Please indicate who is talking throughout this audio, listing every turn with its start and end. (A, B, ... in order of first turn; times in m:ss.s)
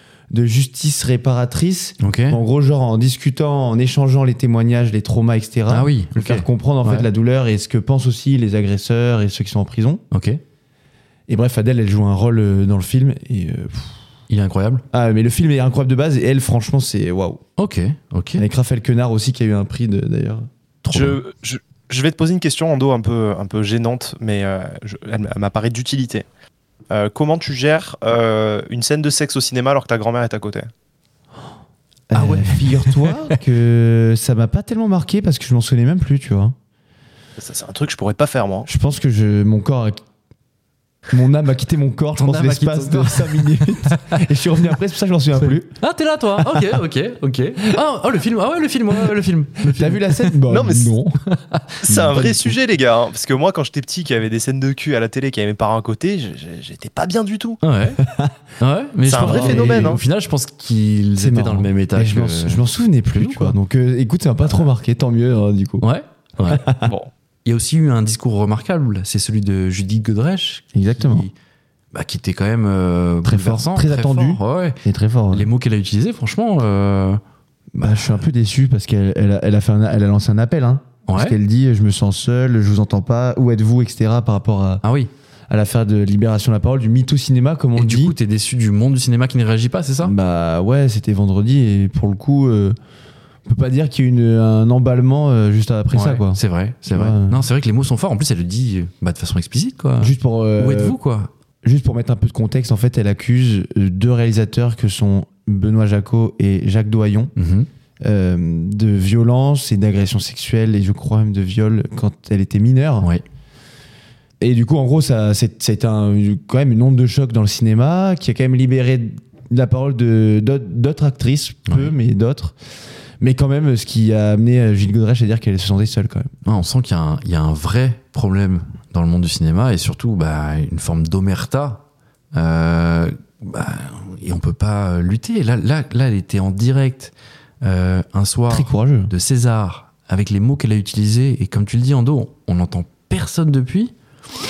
0:00.3-0:10.0 A
0:02.0-0:02.4 B
0:05.7-0:07.1 B
0:10.1-0:10.4 B
0:11.3-0:14.0 A
0:14.3-0:14.8 B
0:14.9-0:17.4 A
0:17.6-0:18.4 B
0:18.4-0:20.4 A
0:20.8-0:21.2 B
0:20.9-0:26.2 C
0:26.9-0:30.7 C
0:32.1-0:36.5 A
0:32.1-0:33.4 B
0:37.4-0:38.7 C
0:38.6-0:40.0 A
0:41.1-0:45.7 A
0:42.2-0:44.2 B
0:45.4-0:50.4 B
0:46.4-0:46.7 A
0:49.6-0:51.2 A
0:50.5-0:50.9 C
0:51.3-0:52.3 B
0:51.8-0:57.6 C
0:51.9-0:52.5 A
0:57.6-0:58.0 B
0:58.0-0:58.4 A
0:58.6-1:03.6 B
0:59.0-1:00.0 C
0:59.2-1:00.0 A
1:01.2-1:05.8 A
1:05.8-1:06.7 B
1:06.4-1:06.9 A
1:06.8-1:07.1 C
1:07.4-1:11.4 B
1:10.7-1:11.3 A
1:11.9-1:14.8 B
1:13.2-1:15.5 A
1:15.3-1:17.2 B
1:17.8-1:24.8 A
1:17.8-1:18.2 B
1:21.0-1:21.4 B
1:24.8-1:25.1 B
1:25.5-1:28.2 A
1:27.8-1:30.2 B
1:30.0-1:32.8 A
1:33.5-1:37.4 A
1:35.9-1:41.3 B
1:40.0-1:41.0 A
1:41.6-1:47.3 A
1:47.4-1:47.7 B
1:48.0-1:53.1 A
1:54.4-2:02.6 A
2:01.7-2:01.9 B
2:03.2-2:06.3 A
2:06.4-2:23.9 B
2:18.5-2:19.1 A